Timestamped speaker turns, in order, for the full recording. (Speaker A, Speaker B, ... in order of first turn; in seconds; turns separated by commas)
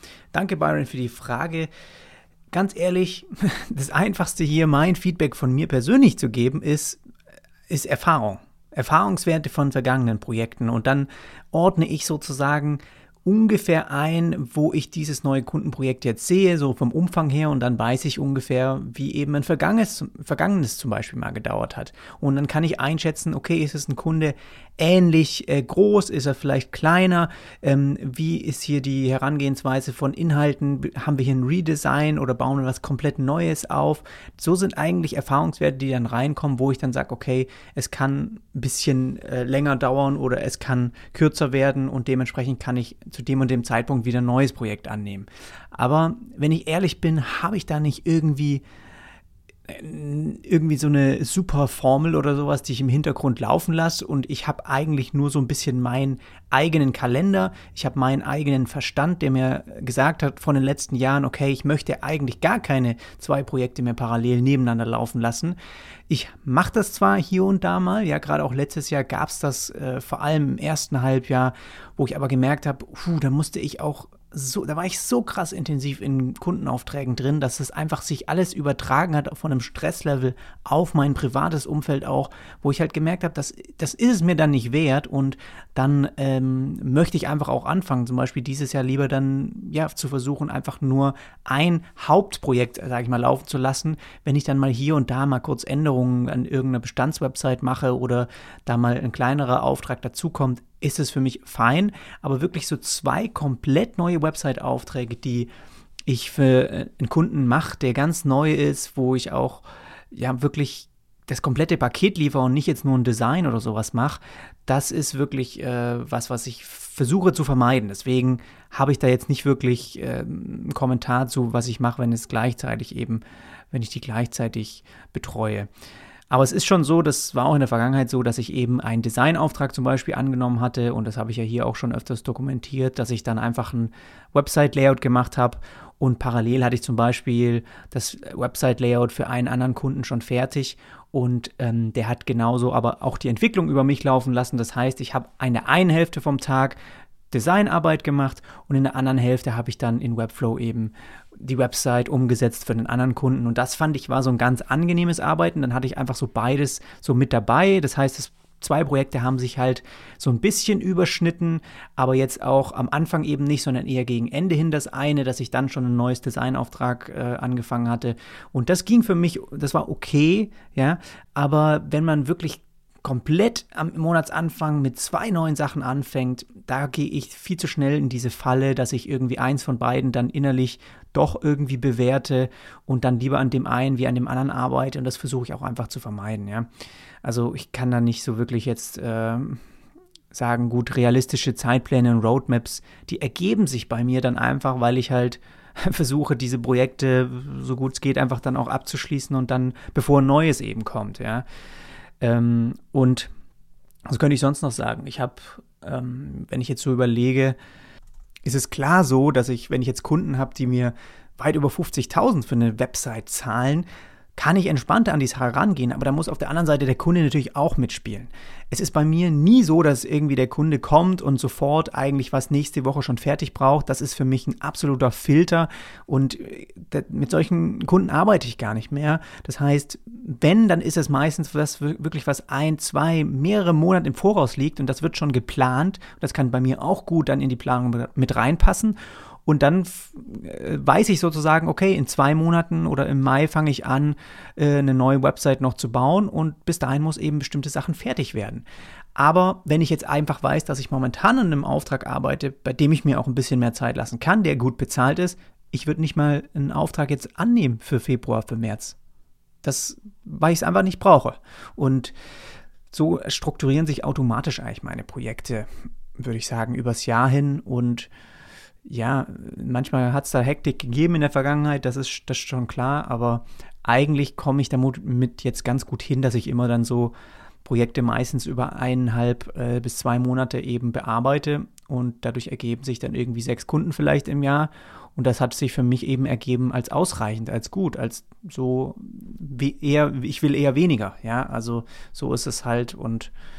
Speaker A: 0.3-1.7, Speaker A: 2.5-7.0, Speaker A: 7.7-48.6, Speaker A: 49.7-65.6, Speaker A: 66.1-105.5, Speaker A: 106.1-125.7, Speaker A: 126.3-146.8, Speaker A: 147.3-186.7, Speaker A: 187.2-189.6, Speaker A: 190.3-201.4, Speaker A: 202.2-203.3, Speaker A: 204.1-207.6, Speaker A: 208.5-259.0, Speaker A: 259.6-262.1, Speaker A: 262.9-268.1, Speaker A: 268.9-277.1, Speaker A: 277.6-293.3